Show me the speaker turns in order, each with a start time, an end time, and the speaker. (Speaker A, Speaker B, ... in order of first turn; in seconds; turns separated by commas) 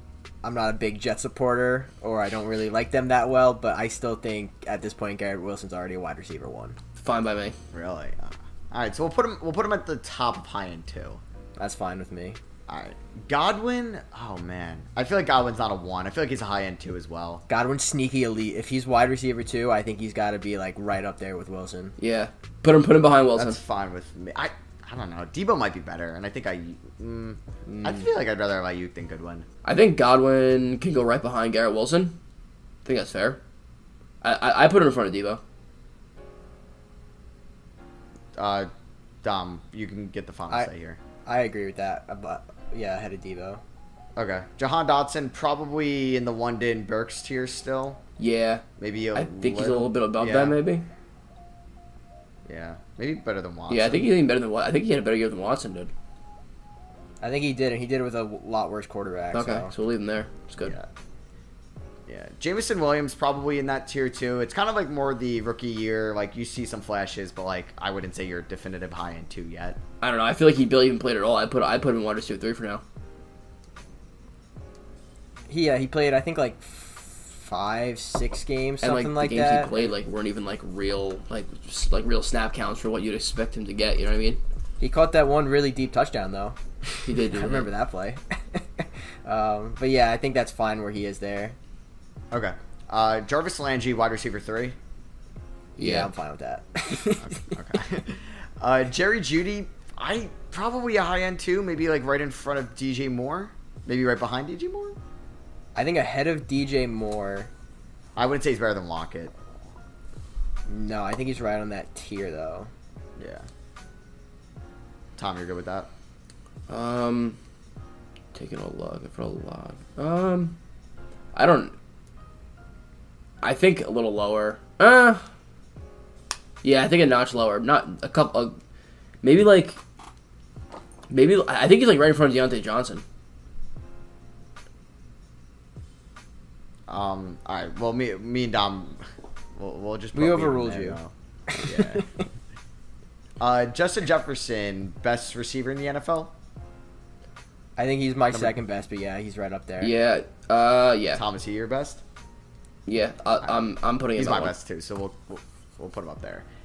Speaker A: 0.4-6.8, Speaker B: 7.0-7.5, Speaker C: 7.7-11.2, Speaker A: 11.6-12.4, Speaker C: 12.7-17.4, Speaker A: 17.5-21.9, Speaker B: 22.0-23.6, Speaker C: 23.3-29.5, Speaker B: 29.6-32.1, Speaker B: 32.9-33.4, Speaker B: 34.2-35.4, Speaker C: 38.4-38.7, Speaker C: 39.2-41.0, Speaker A: 41.3-43.6, Speaker C: 44.2-48.0, Speaker B: 48.2-50.9, Speaker C: 48.8-50.6, Speaker C: 52.5-54.1, Speaker B: 53.7-55.9, Speaker A: 57.2-59.7, Speaker B: 59.3-60.8, Speaker C: 60.6-60.9, Speaker C: 62.1-69.8, Speaker B: 70.0-72.8, Speaker A: 75.5-79.9, Speaker B: 78.8-84.4, Speaker A: 84.8-91.6, Speaker B: 87.0-87.7, Speaker C: 92.3-94.8, Speaker A: 95.8-97.4, Speaker B: 95.8-96.1, Speaker C: 97.2-105.0, Speaker A: 105.8-107.5, Speaker C: 108.2-109.3, Speaker A: 110.7-112.7, Speaker C: 113.2-113.5, Speaker C: 115.2-115.9, Speaker B: 116.7-117.4, Speaker B: 118.3-120.6, Speaker B: 121.3-121.8, Speaker B: 123.4-125.2, Speaker B: 126.6-128.6, Speaker B: 129.2-129.8, Speaker B: 131.1-133.0, Speaker C: 136.9-139.1, Speaker C: 139.6-142.1, Speaker A: 140.2-141.0, Speaker A: 141.6-142.0, Speaker C: 143.4-146.3, Speaker A: 147.8-149.9, Speaker B: 149.8-151.2, Speaker C: 151.1-152.0, Speaker B: 152.9-154.5, Speaker C: 153.4-156.5